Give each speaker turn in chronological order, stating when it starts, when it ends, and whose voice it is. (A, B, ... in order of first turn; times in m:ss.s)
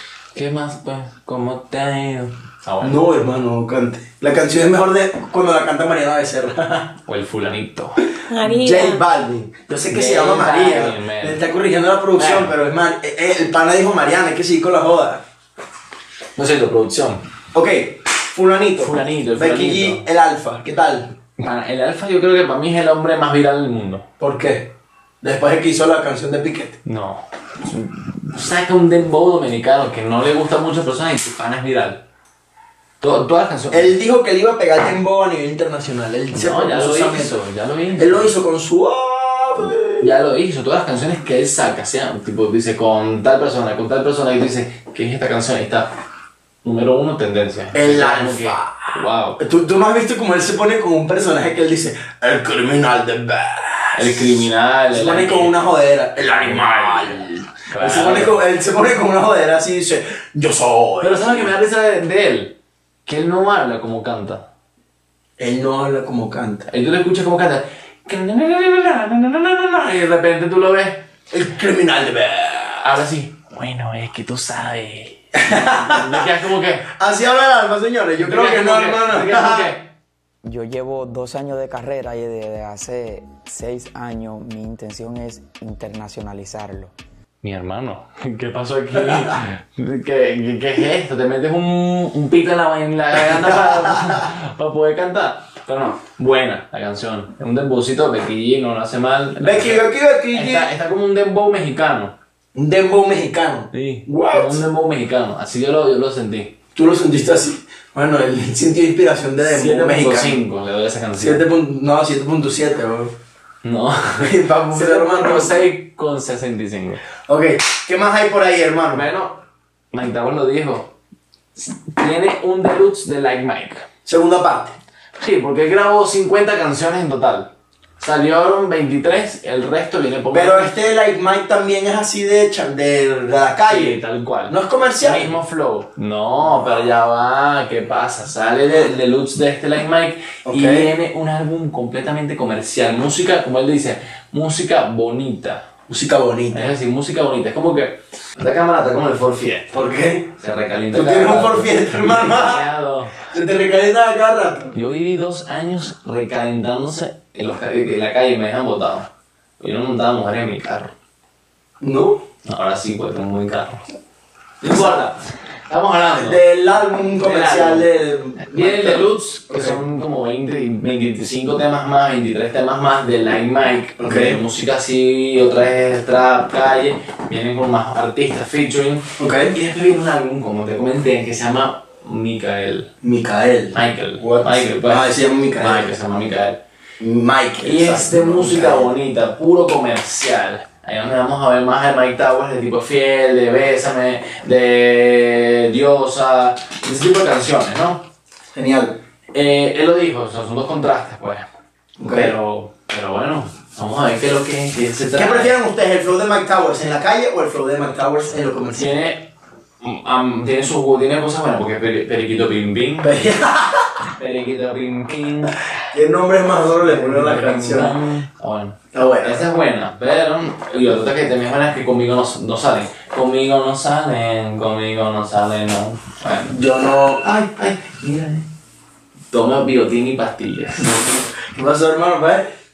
0:00.3-0:03.0 A
0:02.8-0:07.0 B
0:07.1-0:08.1 A
0:08.2-0:15.2 B
0:09.9-0:11.4 A
0:12.2-0:12.5 A
0:16.4-0:17.2 A
0:17.5-0:21.1 B
0:18.8-0:20.0 A
0:21.4-0:24.0 A
0:24.2-0:24.7 B
0:25.2-0:26.8 B
0:26.8-0:32.0 A
0:33.0-0:34.0 A
0:33.7-0:37.4 B
0:36.3-0:38.3 A
0:38.0-0:40.1 B
0:40.0-0:45.9 A
0:46.6-0:49.4 A
0:47.7-0:54.4 B
0:54.0-0:55.6 A
0:54.9-1:01.5 B
0:56.2-0:58.4 A
1:01.0-1:02.5 A
1:03.1-1:04.5 A
1:05.4-1:06.7 B
1:06.7-1:11.0 A
1:11.3-1:12.9 B
1:12.8-1:16.9 A
1:15.5-1:16.3 B
1:17.0-1:19.7 B
1:18.2-1:19.9 A
1:20.4-1:26.9 C
1:27.4-1:42.2 A
1:33.2-1:34.1 B
1:39.4-1:40.7 B
1:42.6-1:44.6 B
1:43.7-1:46.6 A
1:46.8-1:50.4 B
1:49.4-1:51.5 A
1:51.2-1:53.1 B
1:53.6-1:57.0 A
1:54.2-1:55.6 B
1:57.3-1:59.0 B
1:58.9-1:59.4 A
1:59.9-2:00.9 A
2:01.6-2:03.8 A
2:04.1-2:04.8 B
2:05.2-2:10.8 A
2:10.3-2:15.3 B
2:13.7-2:25.7 A
2:20.5-2:20.9 B
2:25.9-2:26.7 B
2:26.5-2:29.8 A
2:29.7-2:30.3 B
2:30.3-2:33.2 A
2:30.9-2:32.7 B
2:33.3-2:34.8 B
2:34.7-2:39.1 A
2:39.6-2:40.9 A
2:41.8-2:42.2 B
2:42.5-2:43.8 A
2:44.6-2:46.4 A
2:44.6-2:45.0 B
2:46.2-2:49.8 B
2:47.2-2:47.9 A
2:48.5-3:02.9 A
2:54.0-2:54.4 B
2:59.2-2:59.6 B
3:03.0-3:05.9 B
3:03.7-3:06.6 A
3:07.0-3:08.9 B
3:07.6-3:18.1 A
3:18.6-3:19.0 B
3:19.3-3:21.4 A
3:22.0-3:22.4 B
3:22.0-3:25.6 A
3:25.2-3:28.9 B
3:28.8-3:33.2 A
3:33.0-3:33.9 B
3:34.2-3:35.7 A
3:35.8-3:38.0 B
3:36.6-3:46.6 A
3:38.9-3:39.5 B
3:46.5-3:47.2 B
3:47.2-3:48.5 A
3:49.3-3:51.1 A
3:50.9-3:52.5 B